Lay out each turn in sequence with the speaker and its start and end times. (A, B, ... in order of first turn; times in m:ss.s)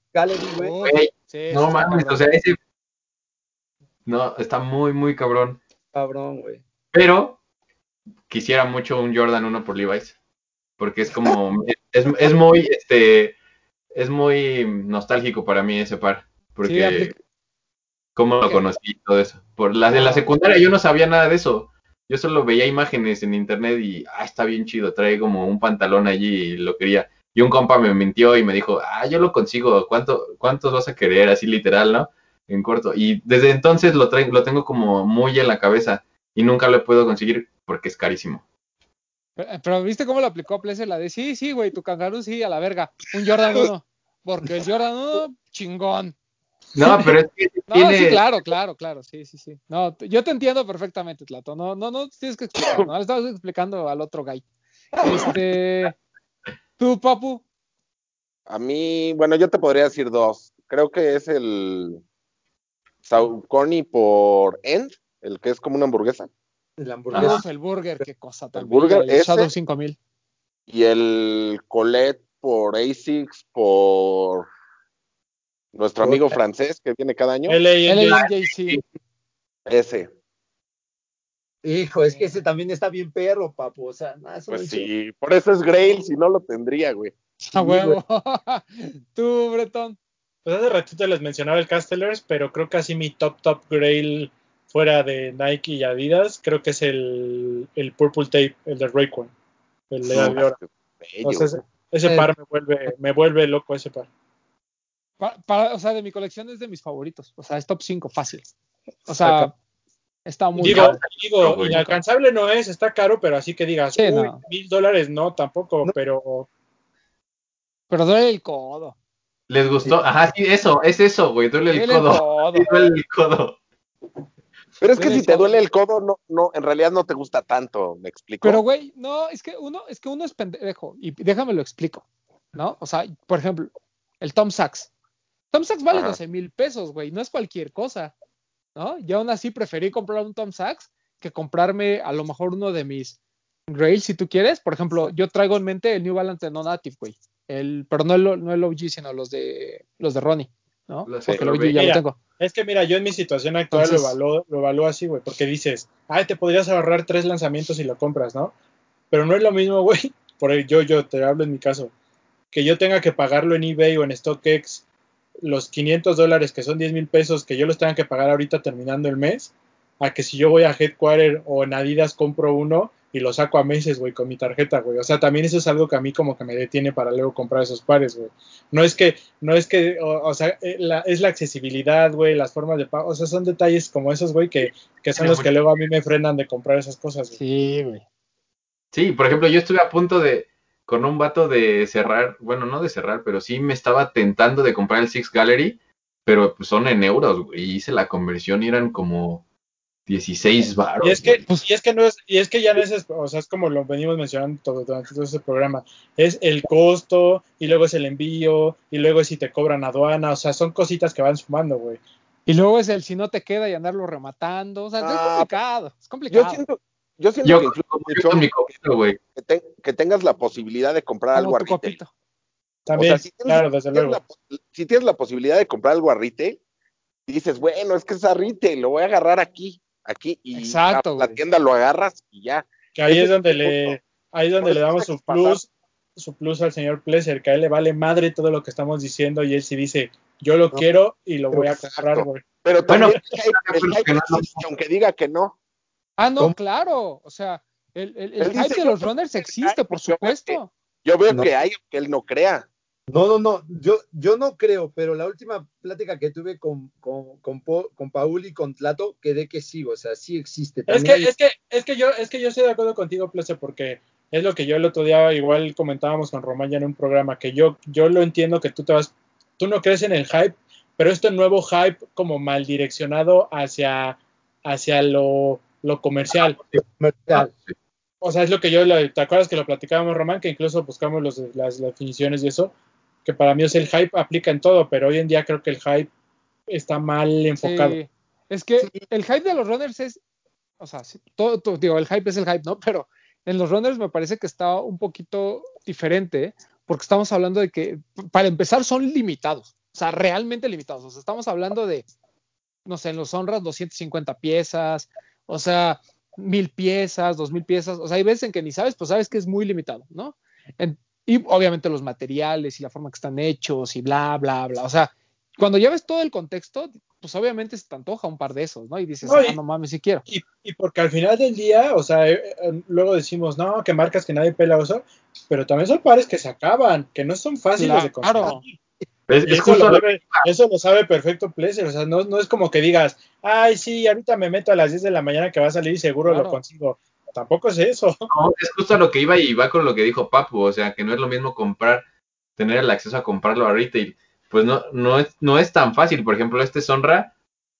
0:00.1-0:00.8 A
0:00.6-0:02.2 B
0:00.8-0:02.6 C
0:04.1-0:05.6 C
0:05.9-0:06.6 A
0:06.9-0:07.4 C
0:08.3-0:10.2 C
0:10.8-0:13.4 C
0:13.9-0:17.1 C
0:16.7-0:17.1 B
0:18.2-0:38.4 C
0:39.4-0:46.2 B
0:46.8-0:48.2 C
0:47.7-0:54.4 B
0:52.6-0:52.9 D
0:55.0-0:56.0 B
0:56.8-0:57.4 B
0:58.5-1:02.0 D
1:03.1-1:06.3 D
1:06.8-1:07.4 A
1:07.1-1:07.4 C
1:07.2-1:10.0 B
1:08.6-1:09.5 D
1:10.7-1:14.5 D
1:15.7-1:17.6 D
1:16.0-1:16.4 A
1:17.5-1:18.2 E
1:17.9-1:18.8 B
1:19.7-1:20.1 D
1:21.6-1:24.9 A
1:24.5-1:27.1 D
1:27.4-1:30.0 B
1:27.6-1:28.0 A
1:30.4-1:39.3 E
1:39.9-1:40.6 E
1:40.1-1:41.5 D
1:41.2-1:44.1 E
1:45.2-1:48.5 B
1:49.1-1:49.5 B
1:49.2-1:49.5 E
1:50.3-1:51.0 B
1:50.6-1:56.5 E
1:50.7-1:51.9 C
1:54.0-1:54.4 B
1:57.9-1:59.0 B
1:59.5-2:03.6 C
2:01.7-2:02.7 B
2:04.8-2:08.6 D
2:05.0-2:05.5 B
2:08.4-2:14.9 B
2:15.5-2:18.1 B
2:15.9-2:16.2 C
2:18.8-2:23.2 B
2:23.7-2:32.2 B
2:31.1-2:31.9 C
2:31.7-2:38.5 E
2:33.7-2:34.2 B
2:39.1-2:41.9 E
2:42.5-2:44.8 E
2:45.4-3:07.4 E
3:05.2-3:05.5 C
3:07.4-3:08.0 B
3:08.9-3:19.4 C
3:20.1-3:21.4 C
3:21.0-3:32.0 E
3:32.5-3:36.6 B
3:35.0-3:35.5 D
3:36.3-3:38.6 D
3:37.4-3:39.2 C
3:39.4-3:42.0 D
3:41.3-3:42.1 B
3:42.9-3:44.2 E
3:43.0-3:46.6 D
3:47.3-3:54.0 D
3:50.6-3:51.4 B
3:52.9-4:03.1 E
3:54.6-3:55.6 D
4:01.5-4:05.6 D
4:02.9-4:04.7 C
4:06.2-4:10.7 B
4:08.4-4:12.7 D
4:13.1-4:21.3 A
4:20.9-4:36.6 E
4:36.7-4:37.5 A
4:37.4-4:37.8 C
4:38.2-4:42.7 E
4:43.2-4:46.1 E
4:46.7-4:48.0 E
4:47.6-4:50.2 B
4:50.8-5:02.0 B
5:02.9-5:20.2 B
5:19.2-5:19.6 E
5:20.3-5:28.7 E
5:27.8-5:28.6 B
5:29.3-5:30.4 C
5:29.4-5:38.3 E
5:36.2-5:36.6 B
5:38.3-5:42.0 C
5:42.6-5:47.3 C